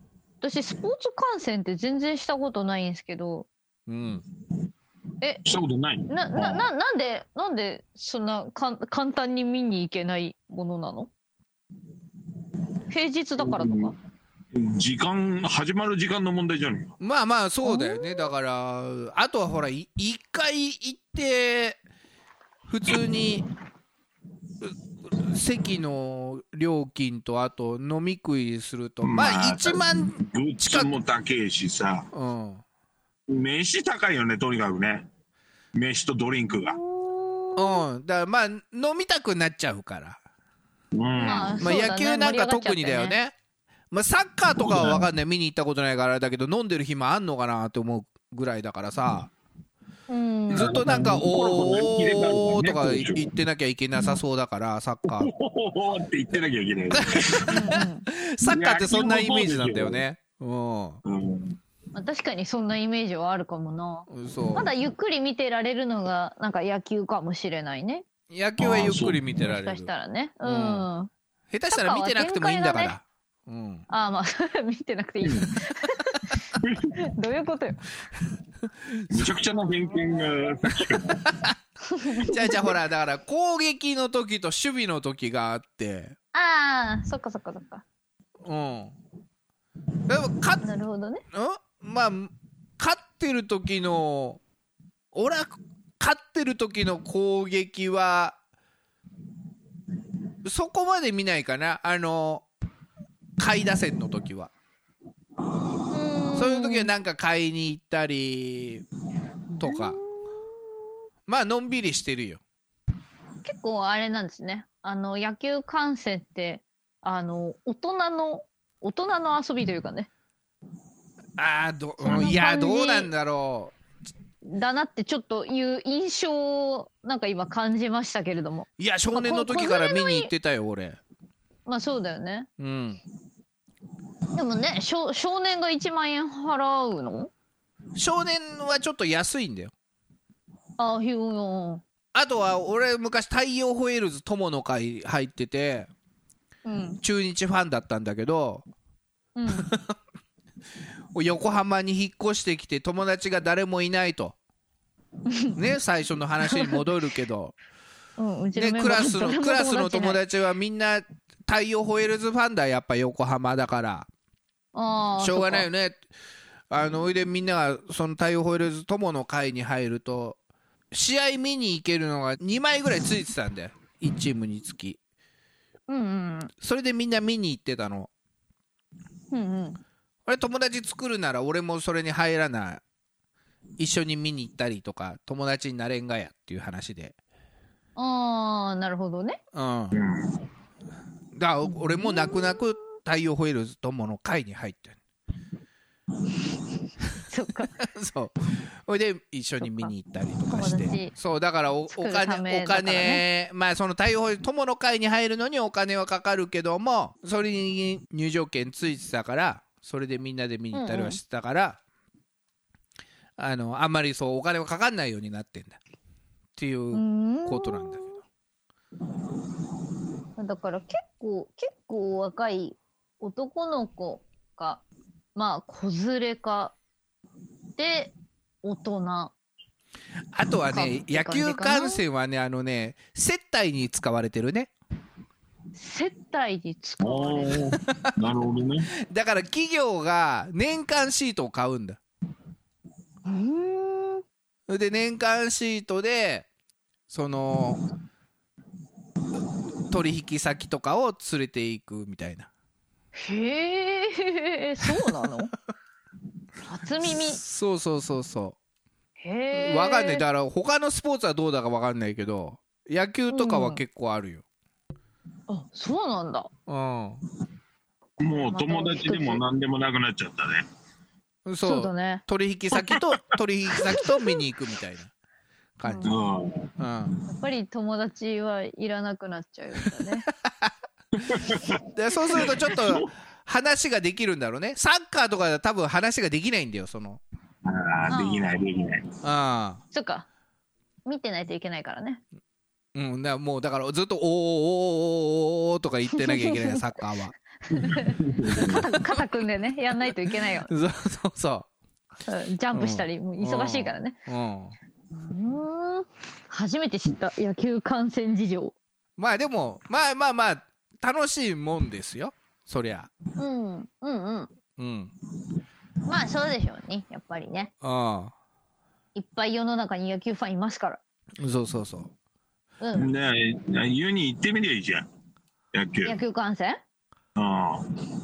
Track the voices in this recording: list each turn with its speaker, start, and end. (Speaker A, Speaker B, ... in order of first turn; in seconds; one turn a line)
Speaker A: 0.4-3.5
Speaker B: 3.9-4.2
Speaker C: 5.5-6.7
Speaker A: 6.1-11.1
Speaker A: 12.9-13.9
Speaker C: 13.4-13.9
Speaker C: 14.5-16.9
Speaker B: 17.0-21.8
Speaker A: 17.6-18.3
Speaker B: 22.7-23.5
Speaker B: 24.6-30.9
Speaker C: 29.0-32.1
Speaker B: 32.1-32.6
Speaker C: 33.3-35.1
Speaker C: 35.8-36.8
Speaker A: 36.6-37.8
Speaker B: 37.6-40.2
Speaker C: 40.9-41.6
Speaker A: 41.2-43.2
Speaker B: 41.6-43.3
Speaker B: 43.9-49.3
Speaker C: 44.6-45.1
Speaker A: 50.1-50.8
Speaker C: 50.5-53.2
Speaker B: 50.5-55.3
Speaker C: 55.1-57.6
Speaker B: 56.9-61.0
Speaker A: 57.5-58.1
Speaker C: 58.4-60.0
Speaker C: 61.0-61.6
Speaker A: 61.9-68.0
Speaker B: 64.1-64.7
Speaker B: 68.3-69.9
Speaker C: 68.6-69.2
Speaker A: 69.4-71.1
Speaker B: 70.4-70.9
Speaker B: 71.5-73.8
Speaker A: 71.7-73.0
Speaker A: 73.9-76.4
Speaker C: 75.2-75.5
Speaker C: 76.6-76.9
Speaker A: 77.0-77.8
Speaker B: 78.9-79.3
Speaker C: 79.1-81.3
Speaker B: 81.3-81.5
Speaker A: 81.8-82.7
Speaker B: 82.2-86.2
Speaker A: 86.3-87.8
Speaker B: 88.4-89.0
Speaker B: 90.1-90.6
Speaker A: 90.6-91.2
Speaker B: 91.3-94.4
Speaker B: 95.1-98.4
Speaker B: 100.4-102.5
Speaker B: 103.4-104.5
Speaker A: 105.9-106.9
Speaker B: 106.3-108.8
Speaker B: 109.6-110.0
Speaker A: 109.6-110.3
Speaker B: 111.3-112.4
Speaker A: 113.4-120.1
Speaker B: 121.4-123.8
Speaker A: 122.0-123.1
Speaker A: 124.4-130.3
Speaker B: 128.8-131.0
Speaker A: 131.7-132.5
Speaker B: 132.6-133.0
Speaker A: 134.3-137.3
Speaker B: 138.0-139.7
Speaker A: 140.8-141.8
Speaker B: 142.1-145.9
Speaker A: 146.7-147.0
Speaker B: 147.0-148.7
Speaker A: 149.4-149.7
Speaker B: 149.6-149.9
Speaker B: 151.1-154.4
Speaker A: 155.3-155.6
Speaker B: 155.6-157.5
Speaker A: 156.4-156.8
Speaker A: 158.2-160.2
Speaker B: 158.6-164.1
Speaker A: 164.7-165.7
Speaker B: 165.2-166.0
Speaker B: 166.7-170.4
Speaker B: 170.9-175.0
Speaker A: 175.9-176.5
Speaker B: 176.6-178.1
Speaker A: 179.3-179.8
Speaker B: 180.3-182.8
Speaker B: 183.8-187.2
Speaker A: 188.0-189.4
Speaker B: 189.5-190.0
Speaker C: 189.9-190.4
Speaker B: 191.3-195.0
Speaker A: 191.7-192.6
Speaker A: 197.3-197.7
Speaker B: 197.8-198.3
Speaker B: 198.8-211.8
Speaker A: 199.6-199.9
Speaker A: 200.5-201.1
Speaker A: 201.9-203.2
Speaker A: 210.7-211.2
Speaker B: 213.4-215.8
Speaker B: 216.6-218.1
Speaker A: 216.9-218.2
Speaker A: 220.4-224.8
Speaker A: 225.3-226.8
Speaker A: 227.8-229.3
Speaker B: 230.3-234.7
Speaker A: 230.7-232.0
Speaker A: 235.8-237.7
Speaker C: 237.0-238.9
Speaker B: 239.1-242.0
Speaker A: 243.2-244.2
Speaker B: 244.7-246.5
Speaker B: 247.1-247.8
Speaker B: 249.9-252.5
Speaker A: 253.2-255.5
Speaker B: 254.8-255.1
Speaker A: 256.7-257.4
Speaker B: 257.0-258.6
Speaker A: 259.2-260.2
Speaker B: 259.5-264.4
Speaker A: 263.3-263.8
Speaker A: 265.5-266.5
Speaker B: 266.7-267.2
Speaker C: 268.2-270.6
Speaker A: 268.5-269.4
Speaker B: 271.5-275.1
Speaker A: 271.6-272.2
Speaker C: 272.8-273.1
Speaker A: 273.9-274.4
Speaker B: 275.8-276.1
Speaker A: 275.8-276.1
Speaker C: 276.1-276.7
Speaker B: 276.8-277.1
Speaker A: 277.3-280.3
Speaker B: 280.4-280.7
Speaker C: 281.2-281.8
Speaker B: 281.9-287.2
Speaker C: 282.4-283.1
Speaker C: 287.6-289.1
Speaker A: 288.1-288.5
Speaker B: 289.2-289.8
Speaker A: 289.9-290.3
Speaker A: 291.1-292.2
Speaker B: 292.9-297.3
Speaker A: 296.1-296.8
Speaker A: 297.7-300.7
Speaker C: 297.7-298.9
Speaker B: 300.7-301.7
Speaker A: 302.3-304.2
Speaker B: 302.7-304.8
Speaker A: 305.1-308.8
Speaker B: 309.2-313.1
Speaker A: 313.4-314.5
Speaker B: 314.8-315.1
Speaker A: 316.1-317.7
Speaker B: 317.8-318.3
Speaker A: 319.1-321.0
Speaker B: 321.4-322.1
Speaker A: 322.8-323.1
Speaker C: 322.9-325.1
Speaker C: 325.7-326.2
Speaker A: 326.0-326.8
Speaker C: 327.4-327.9